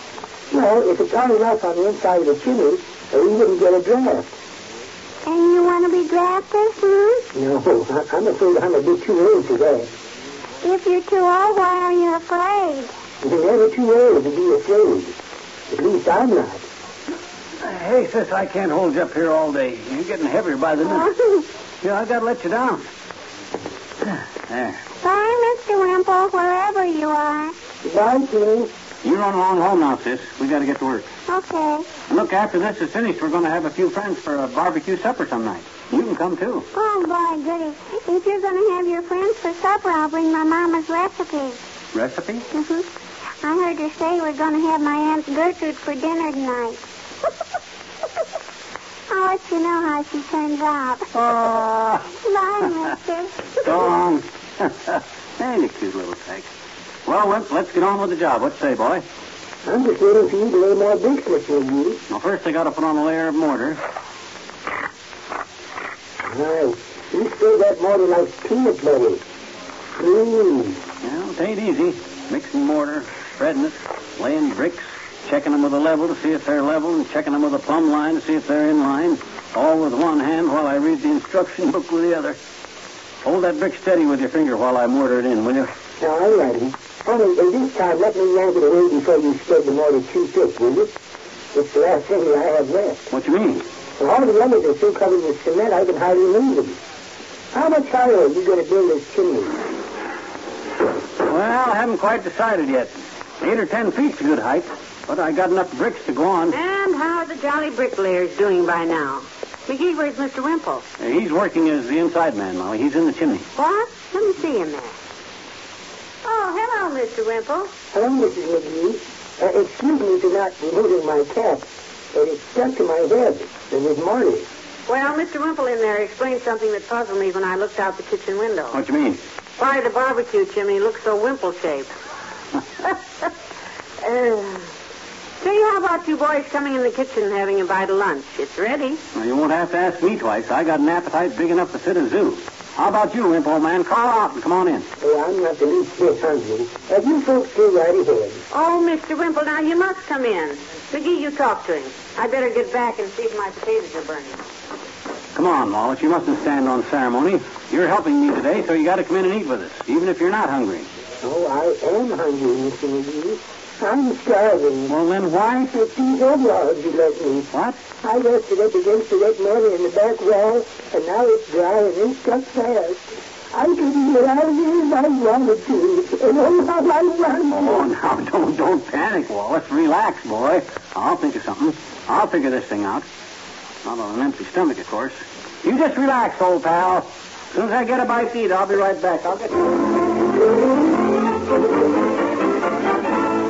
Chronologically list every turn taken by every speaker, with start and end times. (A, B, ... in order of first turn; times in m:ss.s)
0:00.5-0:04.3 A
0:05.2-0:07.2 B
0:07.3-0:09.9 A
0:10.6-0:12.9 B
0:13.2-0:15.2 A
0:15.7-0:16.6 A
0:17.6-0:21.1 C
0:20.8-0:21.4 B
0:21.8-0:22.9 C
0:24.1-0:24.8 C
0:25.0-0:27.5 B
0:27.8-0:28.7 A
0:29.0-0:31.1 C
0:31.3-0:31.9 B
0:32.1-0:36.6 C
0:36.7-0:41.6 B
0:41.9-0:42.4 C
0:42.5-0:42.8 B
0:43.4-0:46.8 B
0:49.1-0:51.1 B
0:51.1-0:52.1 C
0:52.2-0:53.8 B
0:53.6-0:56.5 C
0:57.0-0:59.0 C
0:59.6-1:02.0 A
1:02.1-1:03.8 C
1:06.2-1:09.2 A
1:10.0-1:10.8 A
1:11.0-1:22.4 C
1:23.2-1:25.7 C
1:26.0-1:30.9 A
1:31.5-1:33.1 A
1:33.1-1:33.6 C
1:34.0-1:36.8 A
1:37.5-1:39.6 A
1:41.2-1:46.6 C
1:46.5-1:50.8 D
1:51.0-1:53.5 C
1:53.6-1:55.0 D
1:56.2-1:57.7 D
1:57.9-2:04.5 A
2:04.9-2:08.8 D
2:08.7-2:09.2 C
2:09.6-2:11.9 D
2:14.0-2:14.7 D
2:15.4-2:19.0 D
2:19.1-2:24.9 C
2:25.0-2:28.4 A
2:28.5-2:34.4 D
2:35.3-2:40.9 C
2:41.2-2:44.9 A
2:44.9-2:45.7 C
2:45.7-2:57.9 A
2:47.5-2:47.8 C
2:57.5-3:03.1 C
3:03.8-3:09.8 C